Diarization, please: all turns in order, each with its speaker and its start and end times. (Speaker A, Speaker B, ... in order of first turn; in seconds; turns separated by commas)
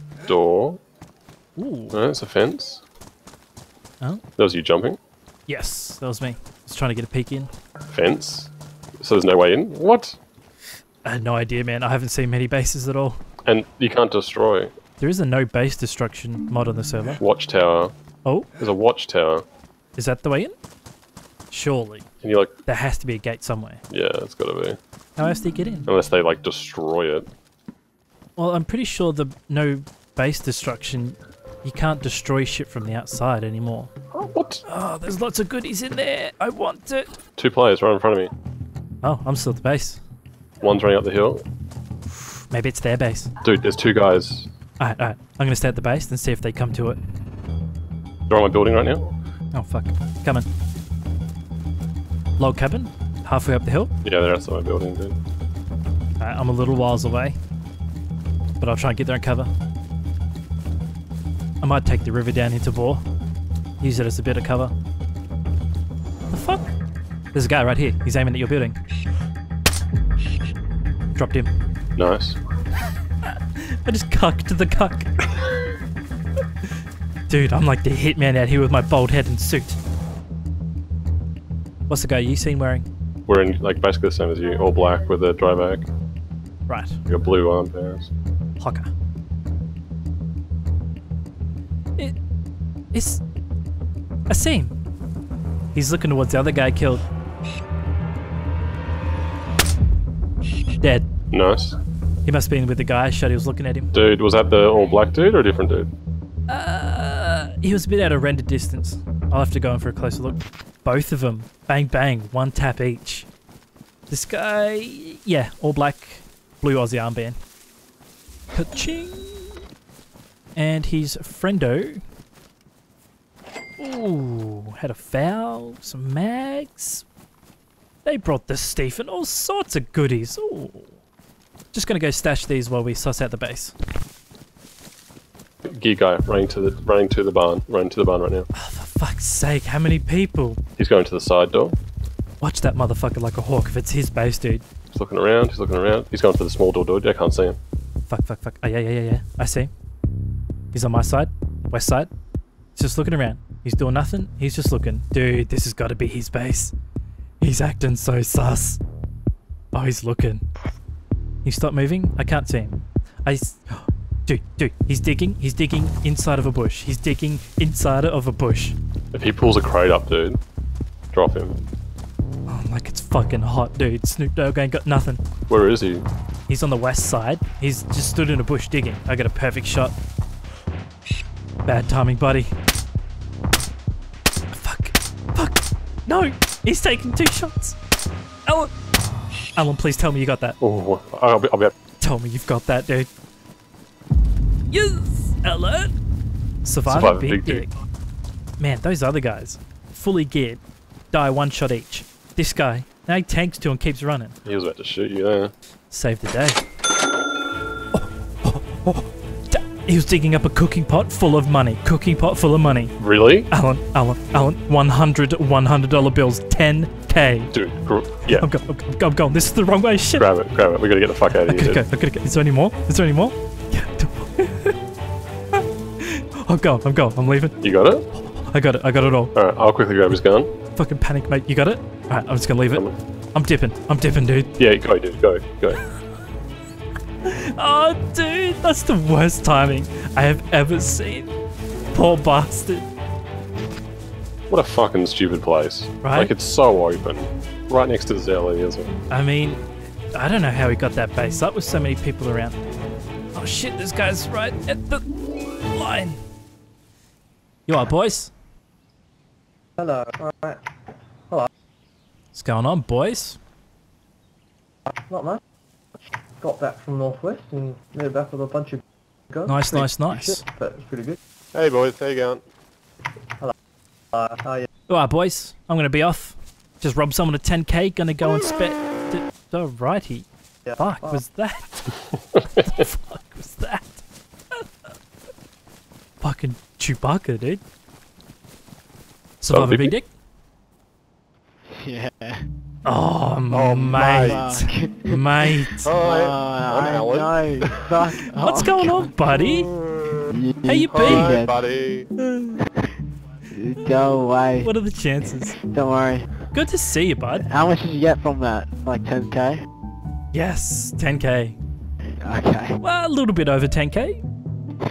Speaker A: 0.2-0.8, Speaker B: 1.6-1.9, Speaker A: 1.9-2.8, Speaker A: 4.4-5.0, Speaker B: 5.5-7.5, Speaker A: 7.9-10.2, Speaker B: 11.0-13.2, Speaker A: 13.4-14.7, Speaker B: 15.0-17.2, Speaker A: 17.2-17.9, Speaker A: 18.6-19.4, Speaker B: 20.0-20.5, Speaker B: 21.5-22.1, Speaker A: 22.2-22.5, Speaker B: 22.6-23.8, Speaker A: 23.9-24.8, Speaker B: 25.2-25.9, Speaker A: 25.9-27.3, Speaker B: 28.4-33.9, Speaker A: 34.1-34.6, Speaker B: 34.6-37.1, Speaker A: 37.4-38.3, Speaker B: 39.0-40.0, Speaker A: 40.6-41.4, Speaker B: 42.5-43.3, Speaker A: 43.4-44.5, Speaker B: 44.8-47.0, Speaker A: 48.3-49.1, Speaker B: 49.5-50.5, Speaker B: 52.4-53.9, Speaker A: 54.0-55.2, Speaker B: 56.2-57.4, Speaker B: 58.6-59.5, Speaker B: 61.6-63.0, Speaker B: 63.8-64.7, Speaker B: 66.3-66.7, Speaker B: 67.3-68.8, Speaker B: 71.2-71.5, Speaker A: 72.0-72.4, Speaker B: 73.3-75.1, Speaker B: 77.3-79.8, Speaker B: 81.9-82.8, Speaker A: 83.3-85.9, Speaker B: 86.7-87.0, Speaker A: 87.1-88.1, Speaker B: 88.6-88.9, Speaker B: 92.9-93.2, Speaker B: 94.3-94.7, Speaker B: 95.7-97.0, Speaker B: 100.8-101.1, Speaker A: 101.3-101.8, Speaker B: 102.2-103.9, Speaker A: 103.9-105.9, Speaker B: 106.5-113.3, Speaker B: 114.1-117.4, Speaker B: 118.5-119.6, Speaker B: 120.5-122.0, Speaker B: 123.8-127.0, Speaker B: 128.0-131.0, Speaker B: 131.7-133.7, Speaker A: 135.6-138.5, Speaker B: 138.5-140.6, Speaker A: 140.8-141.8, Speaker B: 142.4-144.6, Speaker A: 144.9-147.6, Speaker B: 148.1-149.7, Speaker B: 150.7-152.1, Speaker B: 152.8-156.7, Speaker B: 157.4-158.8, Speaker B: 159.7-160.4, Speaker B: 161.4-168.8, Speaker A: 169.1-170.4, Speaker A: 171.1-171.6, Speaker B: 172.5-175.2, Speaker A: 175.5-176.0, Speaker B: 176.5-179.9, Speaker B: 181.7-182.5, Speaker B: 184.5-187.8, Speaker B: 188.4-188.7, Speaker B: 189.6-190.6, Speaker A: 190.6-191.7, Speaker B: 192.0-193.1, Speaker B: 194.7-195.9, Speaker B: 196.6-197.7, Speaker A: 196.8-197.7, Speaker B: 198.6-200.6, Speaker B: 201.1-204.3, Speaker A: 204.4-205.5, Speaker B: 205.9-206.6, Speaker B: 207.9-212.9, Speaker A: 213.0-213.5, Speaker B: 213.5-217.5, Speaker A: 217.5-218.5, Speaker B: 218.3-220.2, Speaker A: 220.2-221.8, Speaker B: 221.4-224.8, Speaker B: 226.0-227.6, Speaker A: 227.6-228.1, Speaker B: 228.2-229.3, Speaker A: 229.3-230.5, Speaker B: 230.8-232.8, Speaker B: 233.3-234.5, Speaker A: 234.6-235.8, Speaker B: 237.2-241.3, Speaker B: 241.9-242.8, Speaker A: 244.5-248.9, Speaker B: 246.0-246.3, Speaker B: 249.1-252.6, Speaker B: 253.3-255.1, Speaker B: 255.7-256.2, Speaker B: 257.7-258.3, Speaker C: 259.8-260.6, Speaker B: 262.3-263.4, Speaker C: 265.1-265.4, Speaker C: 266.4-271.2, Speaker B: 269.5-270.4, Speaker D: 271.5-272.4, Speaker C: 274.1-274.7, Speaker B: 274.9-281.9, Speaker C: 280.6-281.2, Speaker B: 282.5-284.0, Speaker B: 286.2-287.6, Speaker B: 289.4-290.1, Speaker A: 289.5-289.9, Speaker E: 291.7-292.4, Speaker B: 292.8-295.9, Speaker D: 293.5-294.5, Speaker E: 293.9-295.2, Speaker D: 295.8-298.0, Speaker E: 296.0-299.1, Speaker B: 298.4-299.7, Speaker D: 299.7-300.2, Speaker E: 300.4-301.6, Speaker B: 300.6-301.3, Speaker D: 300.8-302.1, Speaker B: 302.2-302.6, Speaker E: 303.5-304.7, Speaker B: 304.6-305.6, Speaker E: 305.5-306.3, Speaker B: 306.5-307.4, Speaker E: 307.4-309.6, Speaker B: 310.3-311.6, Speaker E: 312.2-312.8, Speaker B: 312.8-314.2